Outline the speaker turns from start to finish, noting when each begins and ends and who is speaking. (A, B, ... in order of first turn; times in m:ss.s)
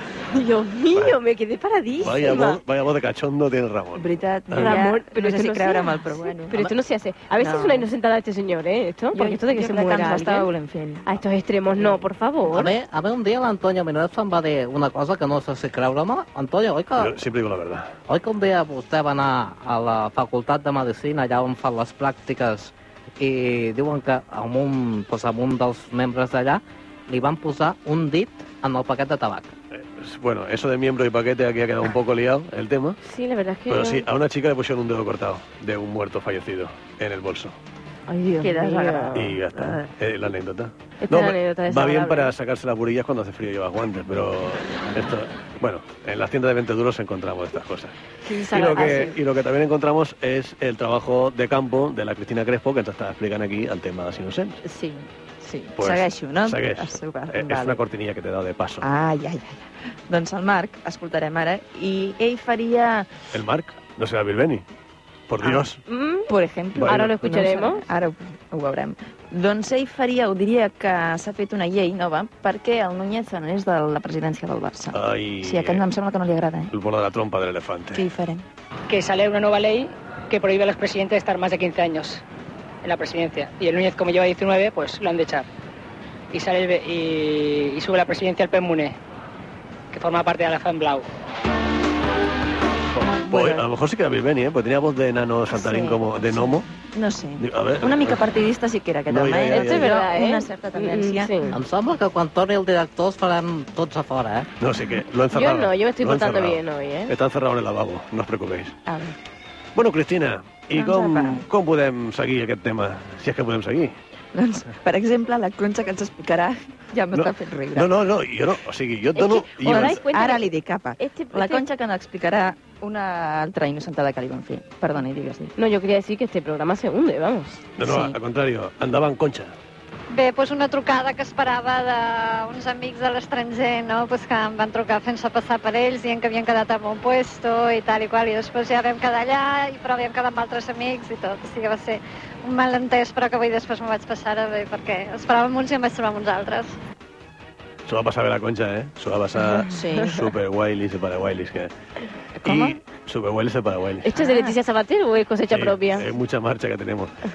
0:00.3-0:02.6 A
0:02.0-0:04.8 B
0:04.0-0:06.6 C
0:04.6-0:10.5 A
0:07.4-0:07.9 C
0:09.1-0:11.1 C
0:11.0-0:12.7 A
0:12.5-0:17.2 D
0:17.0-0:17.9 B
0:18.1-0:29.5 D
0:29.7-0:33.0 B
0:33.0-0:34.0 A
0:33.7-0:37.6 B
0:38.1-0:39.3 A
0:38.4-0:39.8 C
0:39.1-0:47.9 B
0:41.0-0:42.3 A
0:48.2-0:49.1 A
0:48.5-0:54.6 B
0:54.6-0:57.8 C
0:55.8-0:58.8 B
0:58.8-1:03.1 C
1:03.3-1:04.6 B
1:05.3-1:05.8 B
1:05.9-1:06.3 A
1:06.3-1:16.7 C
1:06.7-1:07.1 B
1:06.8-1:07.8 A
1:14.9-1:15.8 B
1:16.7-1:18.0 B
1:17.9-1:18.4 C
1:18.9-1:22.2 E
1:22.8-1:25.5 E
1:26.3-1:29.0 E
1:29.9-1:31.0 E
1:33.2-1:36.7 B
1:35.5-1:41.5 C
1:37.4-1:38.2 B
1:39.1-1:39.9 B
1:39.5-1:41.6 A
1:41.5-1:44.5 D
1:44.6-1:48.7 B
1:45.3-1:47.1 A
1:48.8-1:49.1 C
1:49.8-1:53.9 B
1:50.7-1:51.4 C
1:54.3-1:57.9 C
1:57.1-2:00.0 B
1:59.2-2:01.6 A
1:59.6-2:05.5 C
2:05.6-2:07.7 A
2:07.8-2:09.5 B
2:07.8-2:08.2 C
2:10.1-2:26.7 F
2:27.8-2:31.7 B
2:29.7-2:30.2 C
2:32.4-2:34.1 B
2:32.5-2:32.7 C
2:34.0-2:36.0 A
2:34.1-2:34.5 C
2:35.5-2:37.1 B